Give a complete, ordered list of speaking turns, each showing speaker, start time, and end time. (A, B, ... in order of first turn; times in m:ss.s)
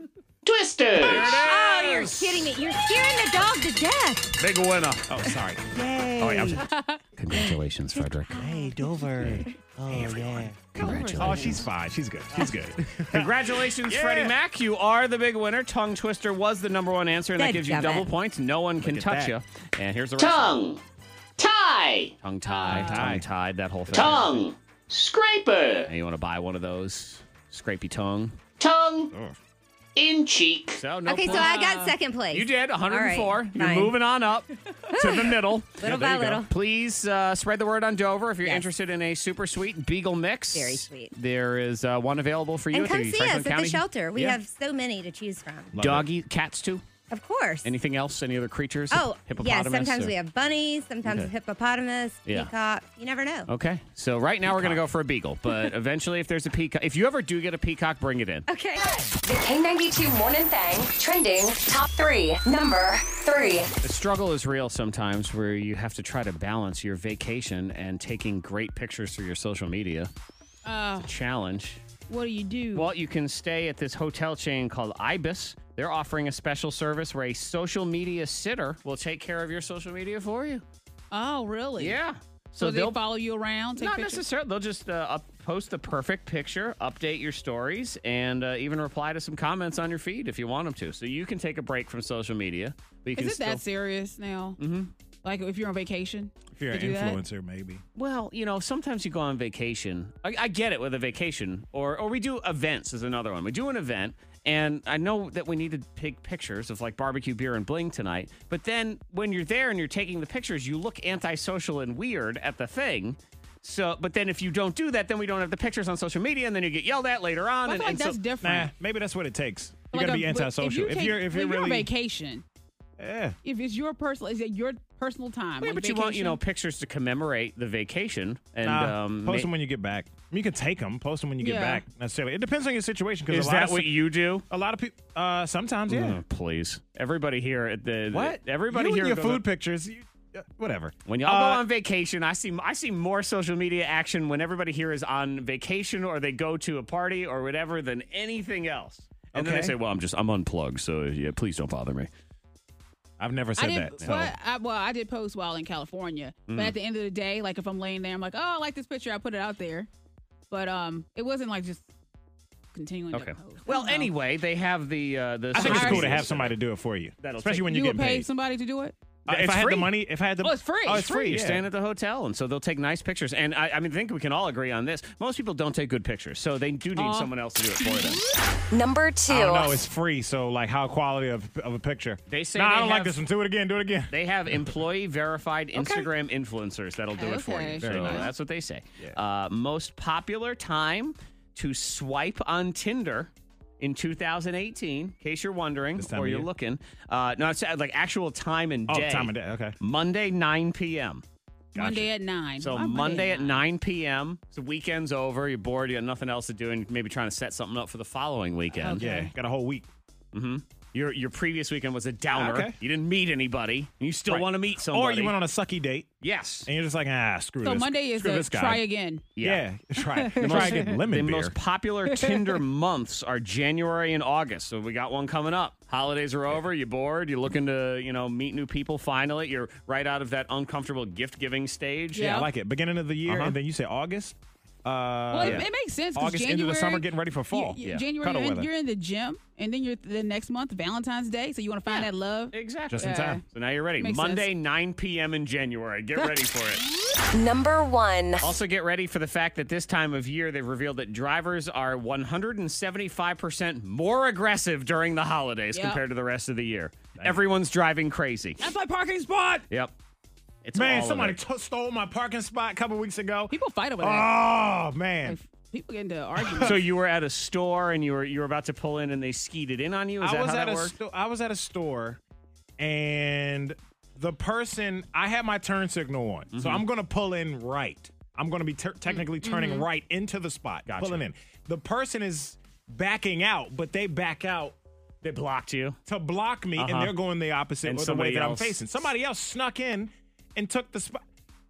0:00.4-0:01.3 A
0:01.0-0:02.3 B
0:01.1-0:01.8 C
0:01.3-0:04.4 D
0:04.4-0:05.1 C
0:05.1-0:06.6 B
0:06.2-0:06.6 C
0:06.6-0:07.0 E
0:07.2-0:08.4 C
0:07.3-0:09.5 D
0:08.3-0:14.4 B
0:09.2-0:11.7 C
0:12.4-0:20.6 C
0:17.4-0:18.1 D
0:18.8-0:19.3 B
0:20.2-0:20.8 A
0:21.4-0:22.1 A
0:22.2-0:24.4 C
0:22.4-0:23.1 E
0:22.7-0:23.2 B
0:23.9-0:25.9 A
0:25.9-0:28.4 C
0:28.6-0:29.1 A
0:30.0-0:30.8 A
0:30.8-0:31.5 C
0:31.0-0:34.0 D
0:31.3-0:31.9 E
0:32.3-0:44.4 C
0:34.9-0:36.5 D
0:40.5-0:41.1 D
0:42.7-0:45.7 D
0:45.7-0:46.1 B
0:45.8-0:46.8 C
0:47.1-0:47.7 D
0:47.6-0:50.1 C
0:48.9-0:53.5 D
0:51.0-0:51.3 C
0:52.2-0:52.5 C
0:53.5-0:58.4 C
0:54.4-0:54.8 B
0:58.5-0:58.9 D
0:59.2-1:03.7 F
1:03.8-1:10.1 C
1:10.6-1:11.1 E
1:11.0-1:11.8 C
1:12.1-1:12.9 E
1:12.7-1:20.6 C
1:21.1-1:22.0 E
1:21.8-1:23.0 C
1:22.6-1:24.2 E
1:23.8-1:33.6 C
1:33.2-1:34.6 E
1:34.6-1:34.9 C
1:35.2-1:37.2 E
1:36.6-1:37.8 B
1:37.9-1:58.2 C
1:57.6-1:58.7 E
1:58.4-2:01.9 B
1:59.9-2:02.4 E
2:03.0-2:03.4 B
2:03.4-2:06.4 E
2:05.6-2:09.5 C
2:08.6-2:16.2 B
2:11.4-2:11.8 E
2:13.3-2:14.4 C
2:15.9-2:19.4 C
2:18.1-2:21.6 B
2:21.1-2:32.1 C
2:29.3-2:29.8 B
2:33.2-2:34.3 B
2:33.6-2:39.9 E
2:36.5-2:36.7 C
2:40.5-2:41.9 E
2:42.7-2:44.1 E
2:43.1-2:46.6 C
2:45.5-2:48.3 B
2:45.6-2:46.2 E
2:47.2-2:47.6 C
2:47.5-2:48.9 E
2:49.2-2:51.6 B
2:49.3-2:49.9 C
2:50.4-2:51.3 E
2:51.2-2:58.2 C
2:57.0-2:57.3 E
2:58.7-2:59.8 F
2:59.3-3:04.1 B
3:02.3-3:03.2 C
3:04.1-3:21.2 C
3:05.8-3:06.0 E
3:07.2-3:08.3 E
3:07.8-3:08.3 B
3:16.0-3:16.5 B
3:18.9-3:19.8 B
3:21.7-3:23.5 E
3:21.8-3:22.0 B
3:22.6-3:29.0 C
3:28.8-3:29.3 E
3:28.9-3:29.9 B
3:30.3-3:35.3 C
3:32.3-3:32.8 B
3:34.3-3:36.1 B
3:36.2-3:36.7 C
3:36.6-3:38.8 B
3:37.6-3:39.2 E
3:39.4-3:39.6 C
3:39.4-3:41.5 B
3:40.2-3:41.0 E
3:40.3-3:52.4 C
3:52.1-3:52.5 E
3:52.1-3:58.7 B
3:53.2-3:53.5 C
3:55.3-4:03.4 E
3:55.4-3:55.7 C
4:01.9-4:06.8 C
4:02.9-4:03.4 B
4:04.0-4:04.5 E
4:07.3-4:08.5 F
4:08.4-4:18.6 C
4:15.7-4:16.0 E
4:18.6-4:19.6 E
4:20.6-4:21.4 C
4:20.7-4:25.4 B
4:23.5-4:24.4 E
4:25.2-4:26.8 E
4:26.4-4:26.8 B
4:26.6-4:31.0 C
4:30.2-4:32.2 B
4:32.8-4:44.7 B
4:36.5-4:36.8 C
4:39.1-4:39.9 E
4:40.9-4:41.2 C
4:45.2-4:46.0 C
4:46.1-4:51.2 B
4:46.8-4:47.1 C
4:47.8-4:48.8 C